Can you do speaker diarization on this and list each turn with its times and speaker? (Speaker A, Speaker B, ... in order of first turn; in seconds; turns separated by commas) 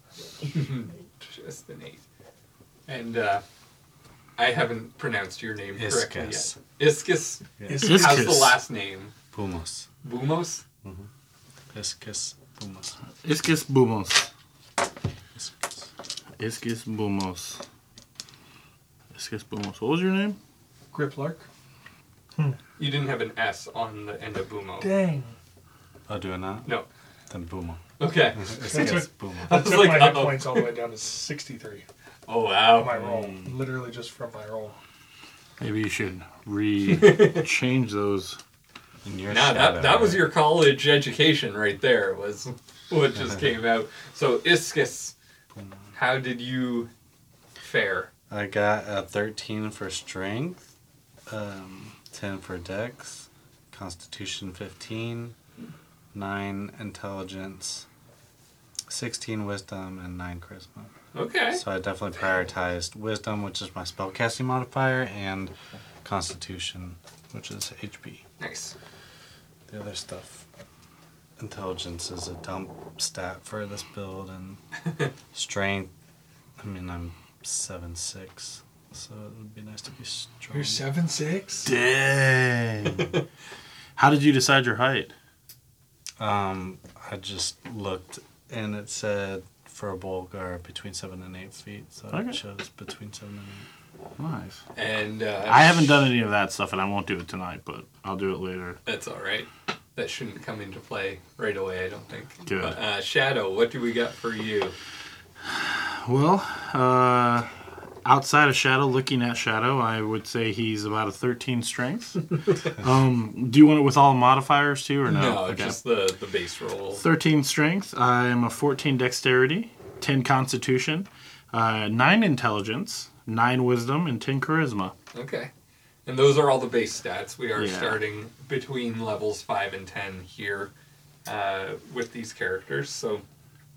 Speaker A: 0.4-2.0, Speaker A: 2.9-3.4, Speaker A: 4.4-9.1, Speaker B: 5.8-6.6, Speaker C: 7.7-8.4, Speaker D: 7.7-8.6, Speaker B: 9.3-9.9, Speaker A: 10.0-10.6, Speaker B: 10.8-11.1, Speaker B: 11.7-13.0, Speaker D: 13.2-14.3, Speaker B: 15.3-15.9, Speaker D: 16.4-17.6, Speaker D: 19.1-20.4, Speaker C: 20.9-21.5, Speaker A: 22.8-24.9, Speaker C: 24.8-25.3, Speaker B: 26.1-26.7, Speaker B: 27.3-27.8, Speaker A: 28.0-30.7, Speaker B: 28.3-29.5, Speaker C: 28.7-31.8, Speaker A: 32.3-33.0, Speaker C: 32.8-34.8, Speaker B: 32.9-33.6, Speaker D: 35.6-38.4, Speaker A: 36.9-37.5, Speaker B: 39.0-40.3, Speaker A: 39.3-45.1, Speaker A: 46.0-46.9, Speaker A: 47.6-48.1, Speaker B: 48.3-50.7, Speaker B: 51.3-55.4, Speaker B: 56.1-57.9, Speaker B: 58.9-60.9, Speaker A: 61.1-61.6, Speaker B: 61.5-68.2, Speaker A: 68.4-68.8, Speaker B: 69.7-70.5, Speaker B: 71.4-74.6, Speaker B: 75.3-75.9, Speaker B: 76.6-80.8, Speaker C: 80.5-81.7, Speaker D: 81.7-83.1, Speaker D: 84.0-85.1, Speaker B: 86.2-93.7, Speaker D: 92.1-92.4, Speaker D: 94.2-94.6, Speaker A: 94.8-95.9, Speaker D: 95.5-98.8, Speaker A: 98.9-104.8, Speaker D: 102.5-102.8, Speaker D: 105.5-107.5, Speaker D: 108.0-112.2, Speaker D: 112.8-115.8, Speaker A: 115.1-117.0, Speaker D: 117.0-125.0, Speaker A: 125.1-125.5, Speaker A: 126.1-130.7, Speaker D: 127.6-128.0, Speaker A: 131.2-133.2